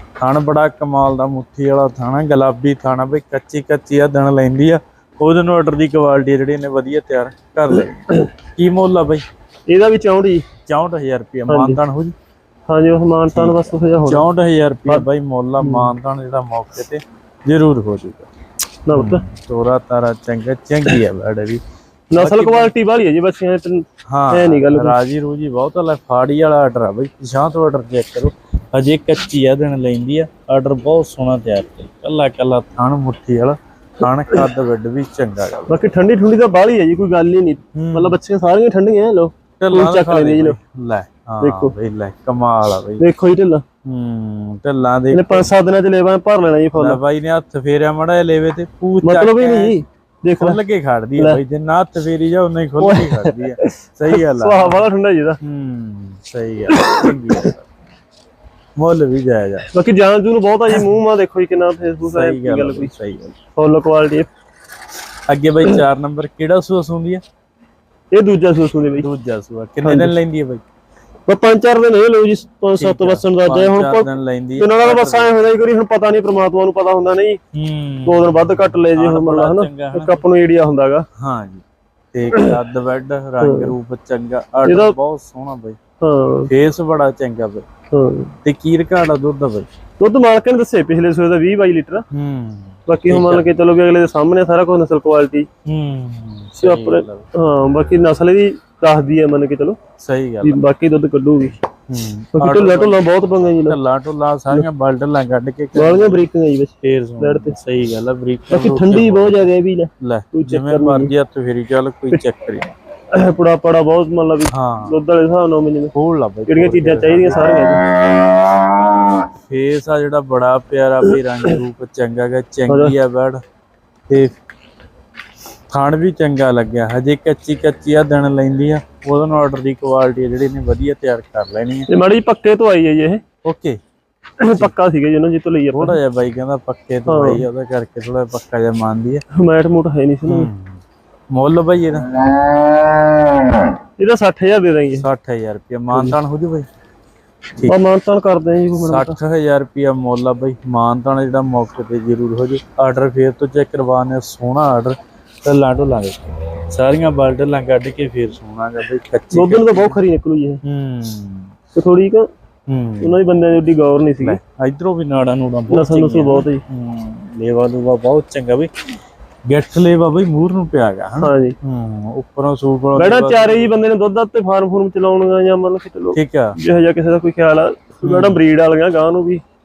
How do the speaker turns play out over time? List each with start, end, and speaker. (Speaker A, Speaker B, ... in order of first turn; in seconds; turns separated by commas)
Speaker A: 0.2-8.0, Speaker B: 7.7-8.3, Speaker A: 8.6-9.2, Speaker B: 9.7-10.5, Speaker A: 10.6-12.1, Speaker B: 11.5-11.8, Speaker B: 12.7-14.2, Speaker A: 13.3-18.3, Speaker B: 15.6-15.9, Speaker B: 18.9-19.2, Speaker A: 18.9-21.6, Speaker B: 22.1-25.0, Speaker A: 22.1-22.7, Speaker A: 24.1-35.9, Speaker B: 35.7-40.6, Speaker A: 37.8-38.2, Speaker A: 39.6-43.1, Speaker B: 41.4-41.8, Speaker B: 43.0-43.6, Speaker A: 43.8-45.5, Speaker B: 45.1-47.0, Speaker A: 46.7-49.8, Speaker B: 49.0-50.6, Speaker A: 50.4-54.9, Speaker B: 52.8-55.4, Speaker A: 55.4-57.6, Speaker B: 56.7-57.5, Speaker A: 58.8-59.7, Speaker B: 59.7-62.9, Speaker A: 62.0-63.4, Speaker B: 63.6-64.3, Speaker A: 65.3-67.2, Speaker B: 68.1-69.1, Speaker A: 69.0-70.6, Speaker B: 69.8-70.2, Speaker B: 71.3-77.4, Speaker A: 72.8-75.3, Speaker A: 77.5-80.2, Speaker B: 78.0-81.0, Speaker A: 81.2-85.8, Speaker B: 82.3-82.6, Speaker B: 83.4-83.8, Speaker B: 84.7-85.0, Speaker B: 86.0-86.5, Speaker A: 86.5-87.7, Speaker B: 87.9-88.3, Speaker A: 88.5-89.7, Speaker B: 90.0-92.0, Speaker A: 92.1-93.5, Speaker B: 92.9-95.5, Speaker A: 95.7-97.2, Speaker B: 96.6-99.8, Speaker A: 100.0-100.6, Speaker B: 100.4-101.6, Speaker A: 101.9-103.1, Speaker B: 102.3-103.8, Speaker A: 103.6-106.3, Speaker B: 105.7-107.6, Speaker A: 106.8-109.5, Speaker B: 108.5-111.1, Speaker A: 110.0-112.7, Speaker B: 113.1-115.9, Speaker A: 114.5-114.9, Speaker A: 115.9-117.5, Speaker B: 116.5-117.8, Speaker A: 119.5-123.4, Speaker B: 121.1-121.6, Speaker B: 122.7-123.0, Speaker A: 124.1-124.4, Speaker A: 125.7-131.9, Speaker B: 131.9-133.2, Speaker A: 133.4-133.8, Speaker B: 134.4-136.0, Speaker A: 135.7-139.2, Speaker B: 137.1-137.4, Speaker B: 139.3-140.5, Speaker A: 140.2-140.8, Speaker A: 141.3-142.1, Speaker B: 144.0-145.1, Speaker A: 144.9-146.7, Speaker B: 147.6-149.2, Speaker A: 148.8-160.0, Speaker B: 159.3-160.6, Speaker A: 160.6-161.6, Speaker B: 161.7-162.3, Speaker A: 162.7-163.2, Speaker B: 163.0-164.4, Speaker A: 164.2-168.7, Speaker B: 165.7-166.6, Speaker A: 169.5-173.7, Speaker B: 171.2-171.6, Speaker B: 173.0-179.4, Speaker A: 176.1-176.6, Speaker A: 178.0-178.4